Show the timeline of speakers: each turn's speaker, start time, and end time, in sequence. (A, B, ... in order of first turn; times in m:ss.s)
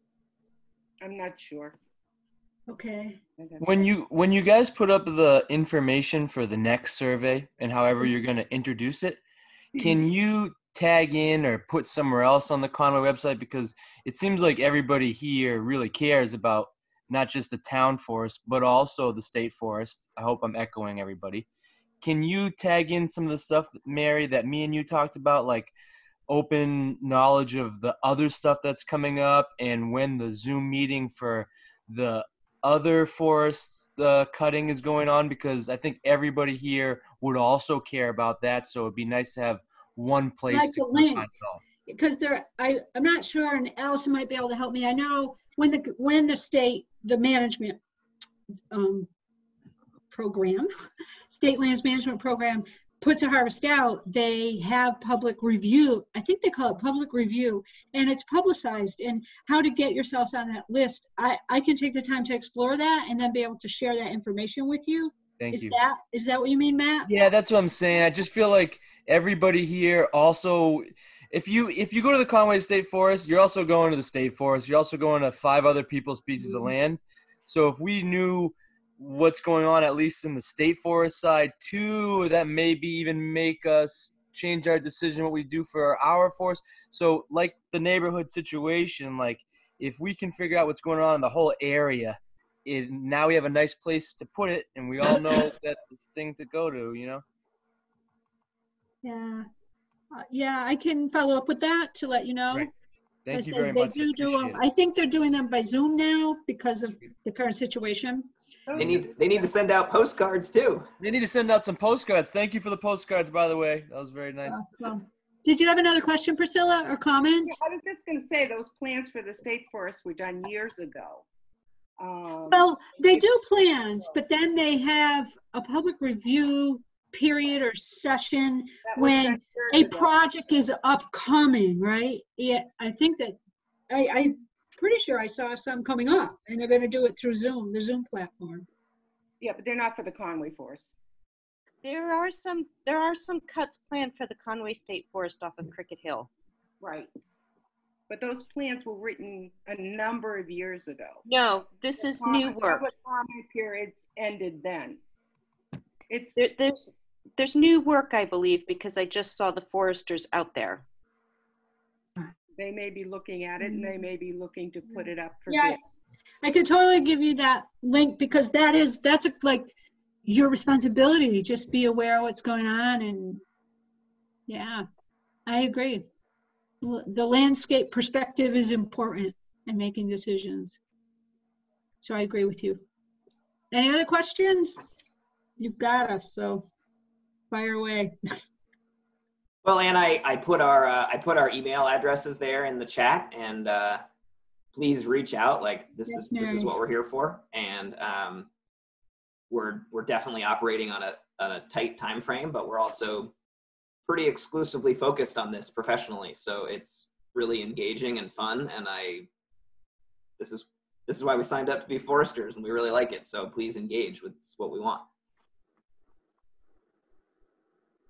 0:01.0-0:01.8 A
0:02.7-0:03.2 B
0:03.4-0:03.9 A
0:03.6-0:09.2 C
0:09.7-0:21.4 C
0:22.0-0:25.7 C
0:26.3-0:41.6 C
0:40.5-0:41.3 B
0:41.9-0:47.8 B
0:48.7-0:49.1 B
0:50.1-0:50.7 B
0:51.3-1:07.1 B
1:05.4-1:05.8 C
1:07.0-1:37.2 C
1:39.0-1:39.5 B
1:40.1-1:42.7 B
1:43.2-1:44.6 C
1:43.3-1:48.3 B
1:48.7-1:49.5 A
1:48.8-1:50.8 D
1:51.0-1:54.6 C
1:54.4-1:57.6 B
1:57.5-2:01.2 A
2:02.0-2:03.3 A
2:02.5-2:13.4 B
2:08.8-2:10.1 A
2:13.9-2:18.6 B
2:19.4-2:20.9 A
2:21.8-2:26.3 E
2:26.8-2:27.1 A
2:28.1-2:31.2 A
2:31.2-2:32.9 E
2:32.0-2:35.0 A
2:36.1-2:36.4 A
2:36.4-2:40.8 E
2:42.6-2:45.8 A
2:43.6-2:44.0 B
2:45.5-2:45.8 B
2:46.4-2:49.7 B
2:50.2-2:53.4 B
2:54.5-2:54.8 B
2:55.4-2:56.0 B
2:56.8-3:00.8 B
3:02.0-3:02.8 B
3:03.7-3:04.7 B
3:05.6-3:06.6 B
3:07.5-3:08.1 B
3:09.6-3:14.0 D
3:14.7-3:18.5 D
3:16.1-3:16.7 B
3:19.5-3:23.3 D
3:24.0-3:29.3 D
3:30.4-3:35.0 D